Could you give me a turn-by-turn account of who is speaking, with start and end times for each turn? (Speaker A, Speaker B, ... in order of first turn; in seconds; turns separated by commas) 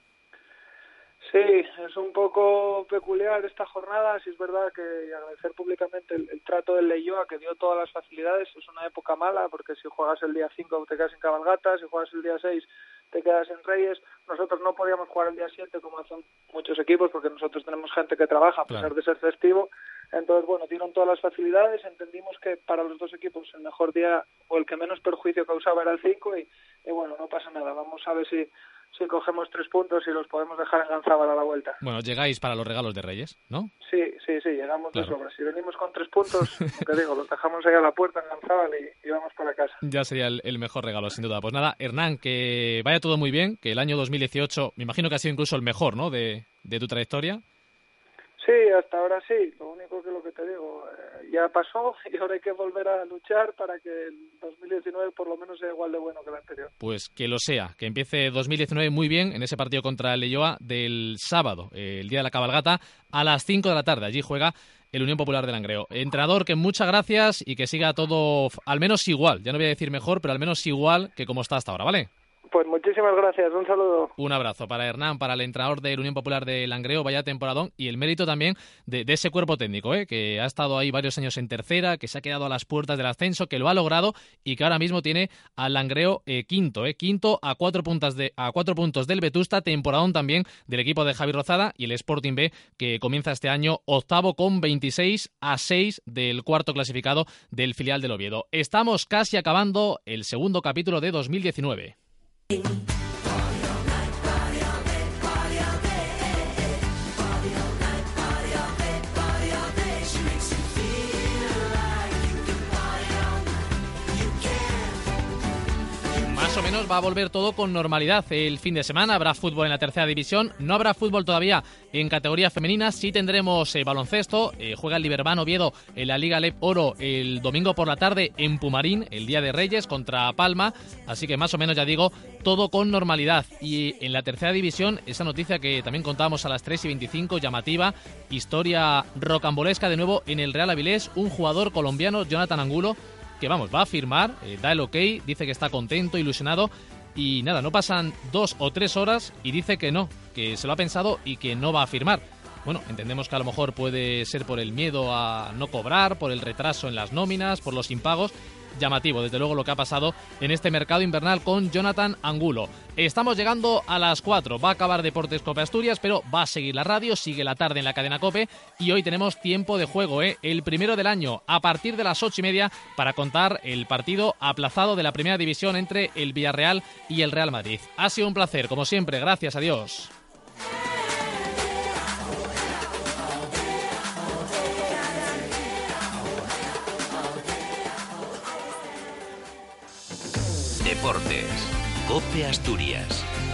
Speaker A: 1.2-31.8, Speaker B: 31.8-33.7, Speaker A: 33.8-39.8, Speaker B: 39.8-47.4, Speaker A: 48.4-56.7, Speaker B: 56.8-72.1, Speaker A: 72.5-74.1, Speaker B: 74.2-102.0, Speaker B: 116.2-180.1, Speaker C: 190.8-193.3